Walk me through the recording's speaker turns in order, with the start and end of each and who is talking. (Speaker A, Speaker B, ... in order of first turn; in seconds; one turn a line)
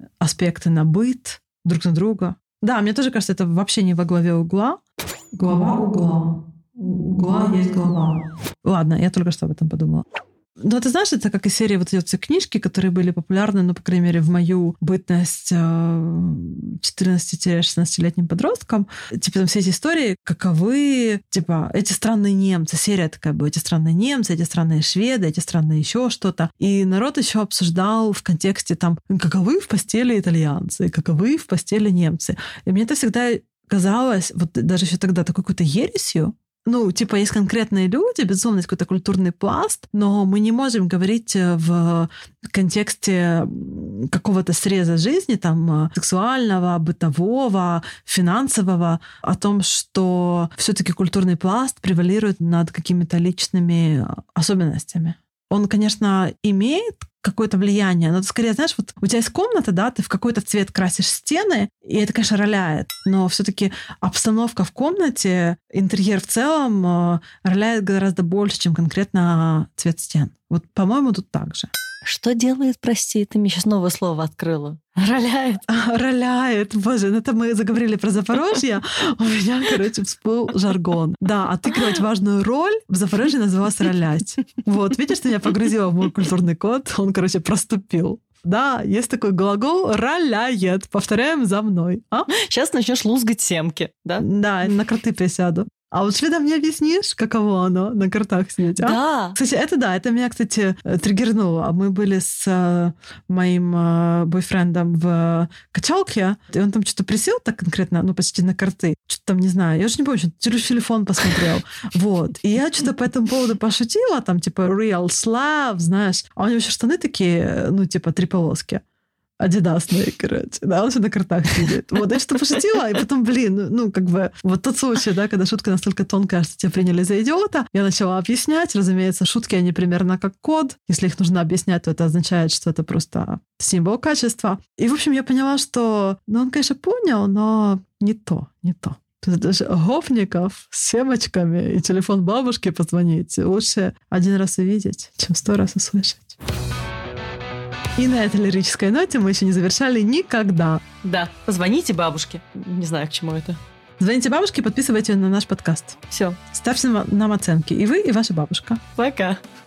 Speaker A: 0.2-4.8
Speaker A: 5.3-10.1
Speaker A: 10.6-71.7
Speaker B: 72.0-75.6
Speaker A: 75.7-92.3
Speaker B: 92.3-94.3
Speaker A: 94.2-118.8
Speaker B: 98.8-99.4
Speaker A: 119.4-146.4
Speaker A: 148.0-150.8
Speaker B: 151.0-153.6
Speaker A: 154.0-158.8
Speaker B: 156.1-156.4
Speaker B: 159.0-159.4